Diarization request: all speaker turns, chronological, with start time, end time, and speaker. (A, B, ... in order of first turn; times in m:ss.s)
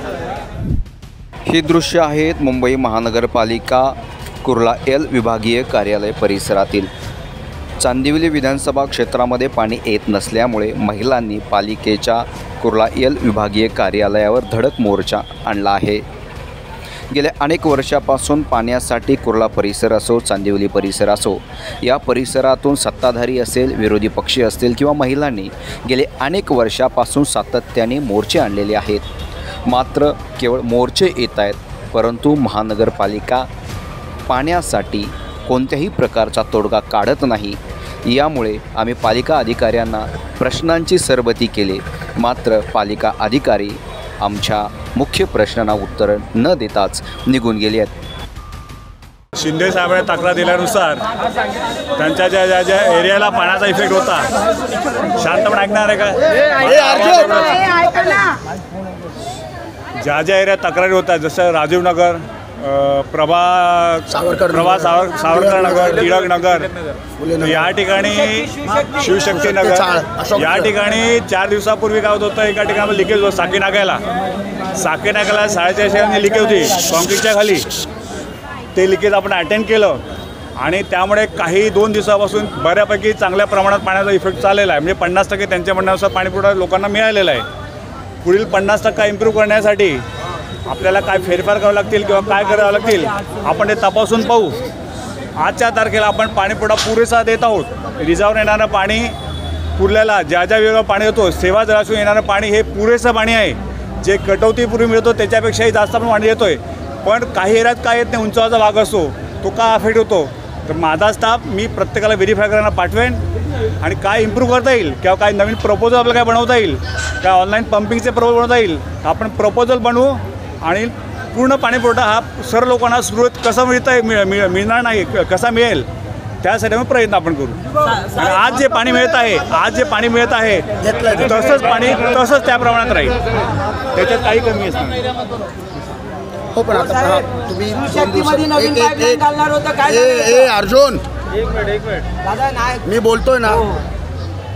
0:01.4-0:06.9 A
0:07.8-0:16.0 A
0:17.1-0:29.1 A
0:29.7-0:33.5 A
0:34.3-0:47.9 A
0:49.3-0:51.0 B
0:51.9-0:54.3 B
0:55.1-0:57.8 B
0:56.6-0:58.2 C
1:00.0-1:06.7 B
1:04.1-1:05.8 C
1:07.2-1:07.7 C
1:07.4-1:14.0 B
1:09.3-1:10.7 C
1:14.7-1:17.7 B
1:18.7-1:20.0 B
1:20.6-1:27.4 B
1:28.2-1:30.0 B
1:30.7-1:34.6 B
1:35.4-1:39.1 B
1:39.8-1:53.2 B
1:53.8-2:05.8 B
2:06.4-2:13.2 B
2:10.8-2:11.4 C
2:13.9-2:15.0 B
2:16.5-2:21.0 C
2:22.7-2:23.7 C